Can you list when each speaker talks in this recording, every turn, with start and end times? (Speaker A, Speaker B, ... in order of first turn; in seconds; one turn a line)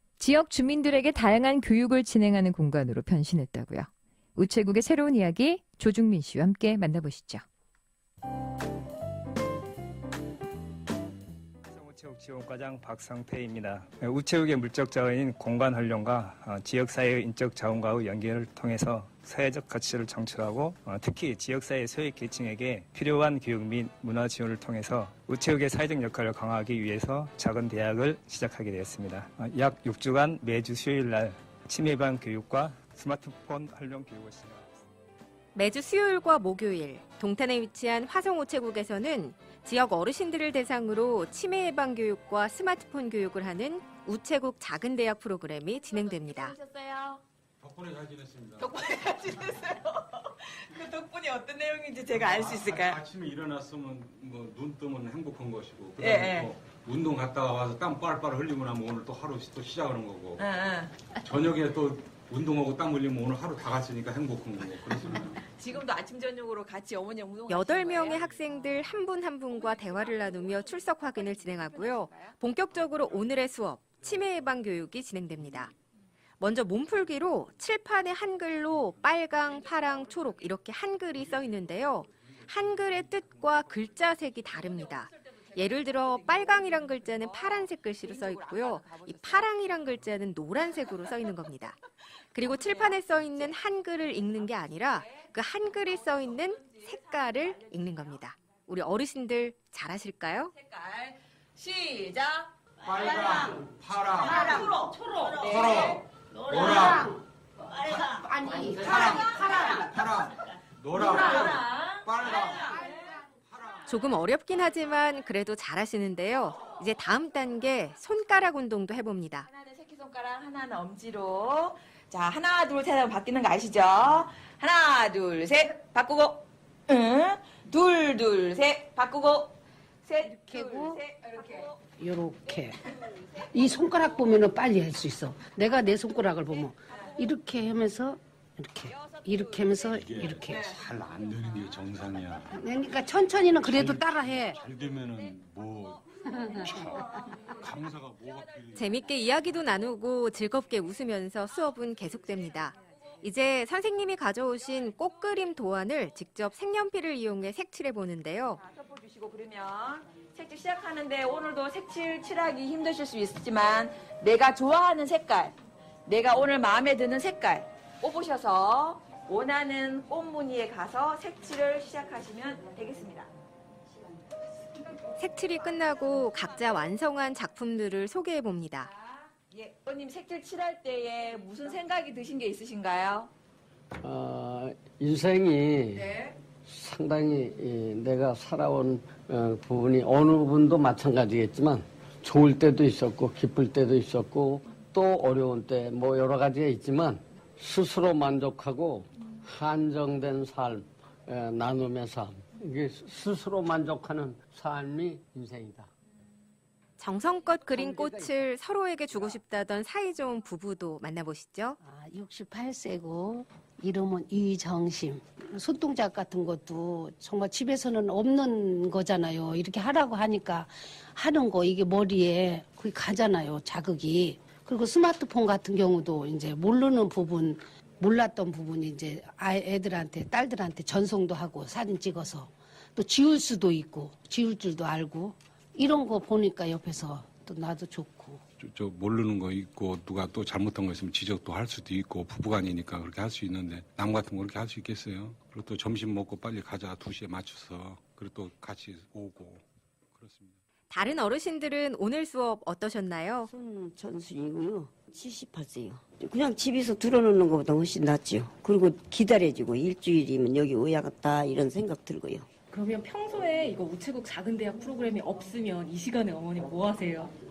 Speaker A: 0.2-7.4
Speaker B: 11.6-34.8
Speaker C: 35.5-46.5
Speaker D: 45.9-47.2
Speaker E: 47.6-48.8
Speaker D: 48.6-53.0
Speaker E: 52.1-60.5
Speaker D: 56.0-56.5
Speaker D: 60.4-60.9
Speaker E: 61.2-65.3
Speaker D: 65.5-68.4
Speaker C: 67.5-75.7
Speaker D: 69.5-72.4
Speaker E: 72.7-74.4
Speaker C: 76.4-91.8
Speaker E: 78.7-79.4
Speaker E: 81.1-84.3
Speaker D: 84.6-89.7
Speaker D: 90.8-91.2
Speaker C: 92.3-100.5
Speaker D: 92.4-93.5
Speaker D: 94.9-95.3
Speaker D: 95.8-98.2
Speaker D: 100.5-102.5
Speaker E: 102.8-104.4
Speaker F: 103.1-103.6
Speaker F: 104.2-107.2
Speaker D: 104.4-104.8
Speaker D: 105.4-105.9
Speaker E: 105.5-107.1
Speaker F: 107.8-110.0
Speaker E: 108.9-112.7
Speaker D: 110.9-113.1
Speaker F: 111.0-111.5
Speaker E: 113.5-114.2
Speaker C: 113.8-119.5
Speaker D: 119.5-129.5
Speaker D: 130.1-131.8
Speaker F: 130.2-131.0
Speaker F: 132.0-132.8
Speaker F: 133.4-140.7
Speaker D: 138.8-139.9
Speaker E: 139.9-142.7
Speaker D: 140.5-140.8
Speaker F: 142.5-144.6
Speaker E: 143.5-148.9
Speaker D: 145.1-145.7
Speaker F: 146.3-147.0
Speaker C: 148.7-158.6
Speaker D: 152.3-152.6
Speaker D: 158.6-165.5
Speaker D: 166.1-173.3
Speaker C: 175.2-178.9
Speaker D: 176.2-176.6
Speaker D: 179.5-183.3
Speaker G: 184.0-186.1
Speaker G: 186.6-205.9
Speaker C: 207.0-211.8
Speaker G: 207.6-208.5
Speaker F: 211.8-238.4
Speaker E: 238.6-250.6
Speaker C: 250.9-253.5
Speaker H: 253.4-262.5
Speaker I: 262.7-267.3